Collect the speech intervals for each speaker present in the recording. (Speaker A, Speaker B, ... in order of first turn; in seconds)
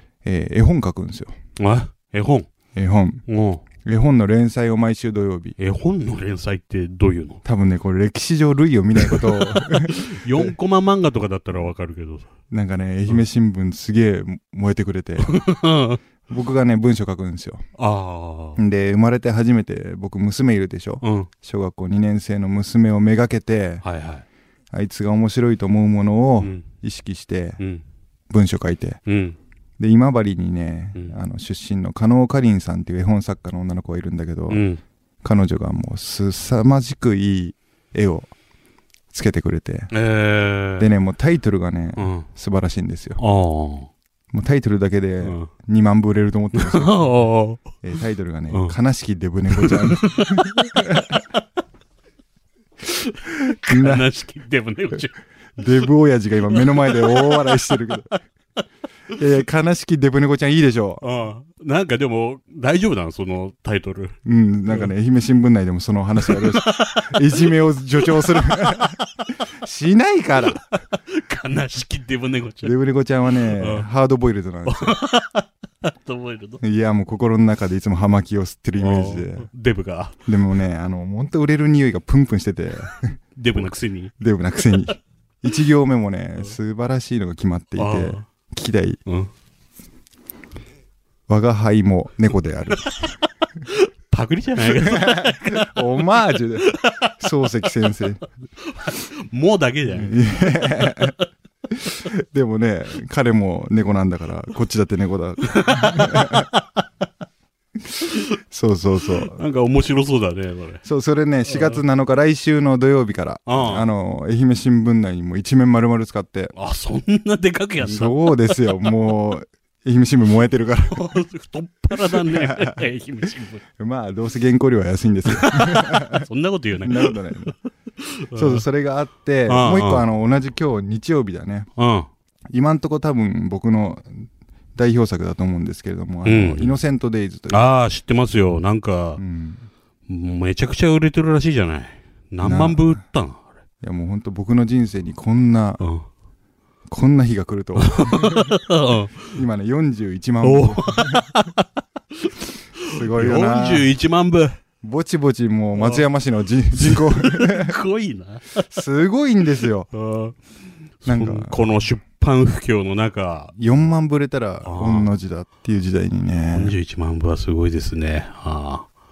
Speaker A: 0.2-1.3, 2.8-3.3, 3.8-5.6, 7.4-10.5, 12.5-15.4, 16.3-17.6, 18.6-23.9, 24.7-27.6, 28.3-29.0, 29.8-34.6, 35.2-38.3, 39.1-39.9, 40.8-43.2, 44.3-47.2, 47.8-51.2, 53.5-54.1, 55.6-58.2, 59.1-61.0, 64.2-70.6, 72.6-75.0, 76.6-79.5, 80.3-89.0, 91.3-93.0, 94.7-98.2, 99.9-101.2, 101.8-106.5, 108.4-109.4, 110.8-116.5, 117.8-121.2, 121.9-122.8, 123.8-126.3, 126.8-127.5, 128.3-131.7, 132.5-137.7, 139.2-139.7, 142.4-143.0, 143.8-145.8, 146.9-148.5, 149.3-151.2, 152.8-153.9, 154.8-157.8, 158.6-159.9, 161.1-161.6, 163.6-166.8
Speaker B: 1.6-2.5, 3.3-3.6, 5.6-7.4, 9.0-12.3, 15.2-16.0, 17.8-18.6, 21.0-21.3, 23.8-24.2, 26.4-26.6, 29.1-29.4, 34.5-34.8, 39.9-40.9, 42.0-42.3, 43.2-43.9, 45.2-45.5, 46.5-47.6, 49.5-51.2, 53.0-55.2, 56.5-57.6, 61.0-64.2, 66.2-69.0, 71.0-72.8, 73.3-73.9, 74.7-76.6, 78.8-80.3, 83.4-84.1, 87.8-88.2, 93.7-95.8, 96.7-97.1, 98.6-101.1, 105.5-106.6, 109.1-110.8, 111.5-111.8, 113.5-113.9, 116.5-118.8, 120.9-123.6, 125.3-128.6, 129.5-130.1, 131.8-132.1, 136.2-136.8, 137.5-139.2, 140.1-143.5, 145.8-146.1, 147.8-149.3, 150.4-151.7, 152.2-154.6, 155.8-156.1, 156.7-158.6, 159.9-160.4, 161.0-163.6, 164.7-165.1, 166.5-168.9